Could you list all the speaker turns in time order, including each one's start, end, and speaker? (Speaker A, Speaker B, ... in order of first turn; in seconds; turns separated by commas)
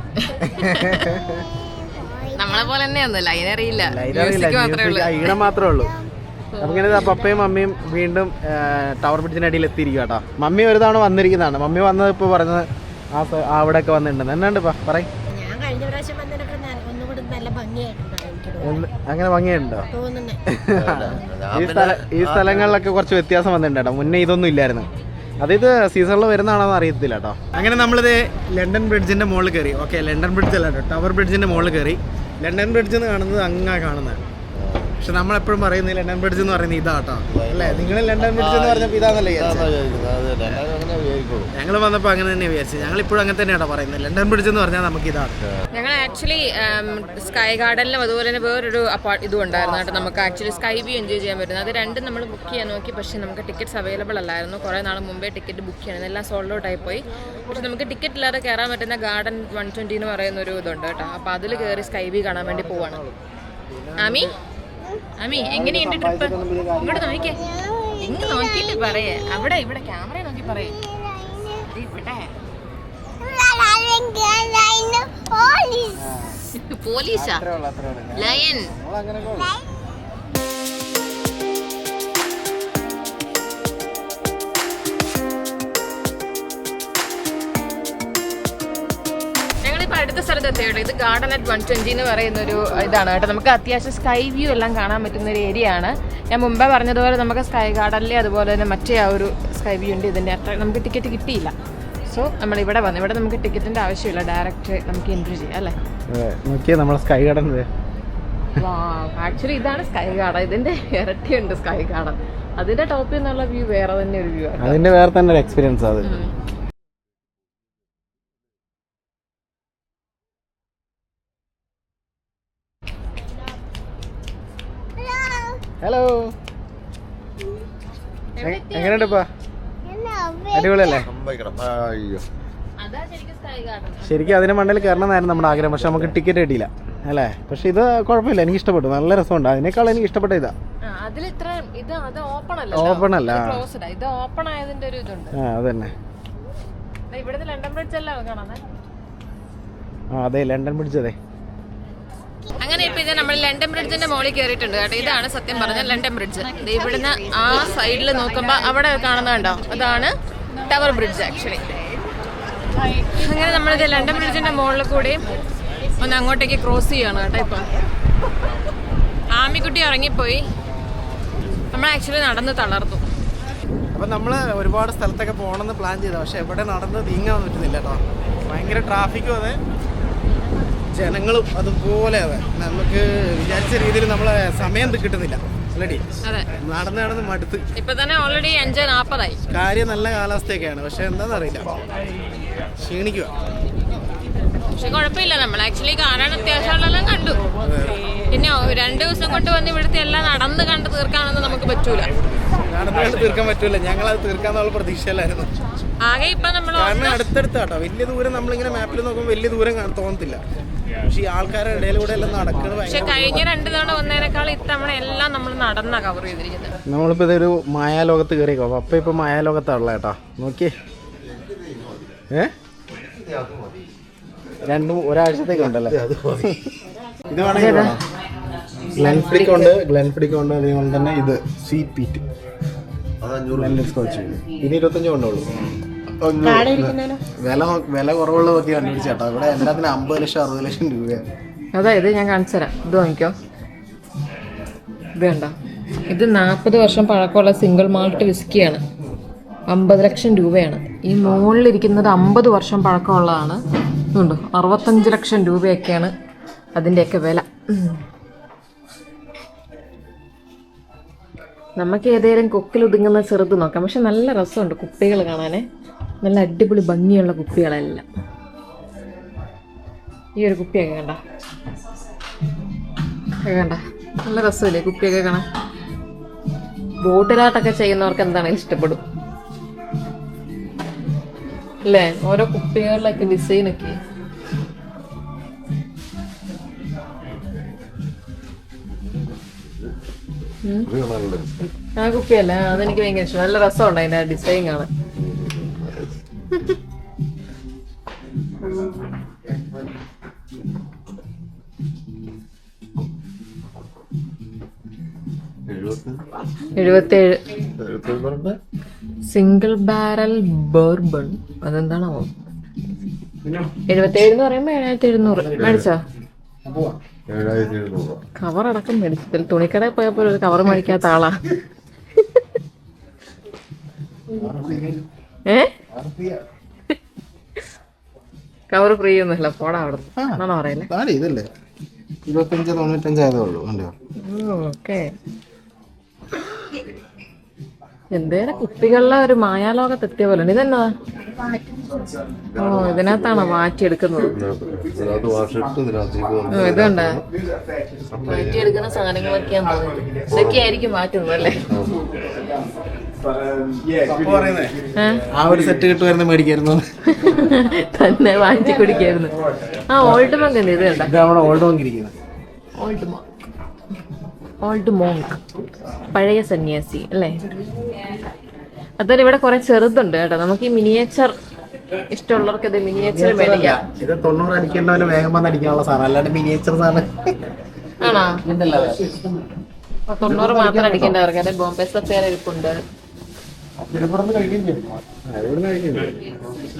Speaker A: 0.2-1.1, Speaker B: 0.5-1.4, Speaker C: 1.6-2.3, Speaker A: 2.3-5.4, Speaker B: 3.9-6.0, Speaker A: 6.5-7.1, Speaker B: 6.6-15.1, Speaker C: 15.3-18.8, Speaker B: 18.6-19.9, Speaker C: 19.9-20.4, Speaker B: 20.5-24.9, Speaker D: 20.8-22.7, Speaker B: 25.4-34.2, Speaker D: 34.7-34.9, Speaker B: 35.0-39.9, Speaker D: 37.3-41.5, Speaker B: 41.5-45.4, Speaker A: 45.7-63.0, Speaker B: 61.5-63.2, Speaker B: 63.7-64.3, Speaker A: 64.0-64.3, Speaker A: 65.2-67.4, Speaker B: 65.3-67.3, Speaker C: 67.4-68.0, Speaker A: 68.0-70.8, Speaker C: 70.9-71.6, Speaker A: 71.7-72.3, Speaker C: 73.2-76.0, Speaker B: 76.0-76.4, Speaker A: 76.6-77.4, Speaker B: 77.1-79.6, Speaker A: 78.2-78.7, Speaker A: 89.6-101.5, Speaker A: 102.1-105.8, Speaker B: 106.1-107.7, Speaker A: 108.6-114.8, Speaker B: 114.6-116.1, Speaker A: 116.0-116.3, Speaker C: 125.0-125.6, Speaker B: 125.8-126.3, Speaker A: 128.4-129.2, Speaker B: 128.4-129.3, Speaker C: 129.9-131.0, Speaker B: 130.5-131.1, Speaker D: 131.0-132.2, Speaker A: 132.8-135.6, Speaker B: 134.1-140.5, Speaker A: 140.8-145.4, Speaker B: 142.7-143.7, Speaker B: 145.4-145.9, Speaker A: 147.1-148.7, Speaker B: 150.1-151.2, Speaker A: 152.6-160.1, Speaker A: 160.7-161.7, Speaker A: 163.0-165.2, Speaker A: 166.0-167.8, Speaker A: 169.3-170.5, Speaker A: 171.7-173.0, Speaker B: 173.9-179.6, Speaker B: 180.9-186.0, Speaker B: 186.6-187.6, Speaker A: 187.8-189.4, Speaker B: 189.5-191.7, Speaker B: 192.8-193.3, Speaker A: 194.7-197.4, Speaker B: 197.6-198.0, Speaker A: 198.3-202.1, Speaker B: 202.6-205.5, Speaker A: 206.0-207.3, Speaker B: 206.8-210.4, Speaker B: 211.1-213.5, Speaker A: 212.8-216.8, Speaker B: 216.9-220.7, Speaker D: 221.3-222.1, Speaker D: 223.2-223.8, Speaker B: 224.7-226.8, Speaker D: 225.6-226.6, Speaker B: 227.3-228.0, Speaker A: 227.5-228.0, Speaker B: 229.0-232.2, Speaker A: 229.0-229.6, Speaker D: 233.2-234.4, Speaker B: 233.5-235.5, Speaker B: 236.2-241.3, Speaker C: 236.4-237.2, Speaker A: 241.7-243.3, Speaker A: 245.2-245.6, Speaker A: 246.1-248.8, Speaker A: 249.7-253.6, Speaker A: 254.1-256.1, Speaker A: 256.8-258.0, Speaker A: 261.8-265.7, Speaker A: 266.2-268.1, Speaker A: 270.4-271.2, Speaker A: 273.4-275.4, Speaker A: 277.0-279.0, Speaker A: 281.9-284.0, Speaker A: 290.6-290.9, Speaker D: 290.9-291.7, Speaker A: 292.0-294.9, Speaker D: 295.2-296.1, Speaker D: 305.7-306.2, Speaker A: 306.8-307.4, Speaker D: 307.8-308.6, Speaker A: 309.3-312.3, Speaker B: 313.4-313.7, Speaker A: 313.9-316.0, Speaker B: 315.2-315.9, Speaker B: 316.6-317.0, Speaker D: 317.3-318.2, Speaker A: 318.4-321.4, Speaker A: 322.2-322.4, Speaker B: 324.3-325.0, Speaker A: 325.5-325.8, Speaker B: 325.9-326.4, Speaker A: 328.7-330.9, Speaker B: 330.2-331.5, Speaker B: 332.3-333.9, Speaker A: 334.2-335.1, Speaker A: 338.1-341.6, Speaker A: 342.6-344.4, Speaker D: 342.6-343.4, Speaker D: 344.4-347.2, Speaker A: 346.5-347.2, Speaker D: 348.1-348.7, Speaker A: 348.2-351.6, Speaker B: 353.6-354.7, Speaker A: 354.9-355.2, Speaker B: 355.3-357.3, Speaker A: 357.1-359.3, Speaker A: 359.9-361.1, Speaker B: 360.9-362.1, Speaker A: 362.8-363.5, Speaker A: 364.6-365.4, Speaker A: 366.1-367.6, Speaker A: 369.0-371.3, Speaker A: 372.1-373.8, Speaker B: 373.0-377.1, Speaker A: 378.0-378.4, Speaker B: 378.5-379.4, Speaker A: 380.1-382.8, Speaker B: 380.2-381.2, Speaker B: 383.8-386.3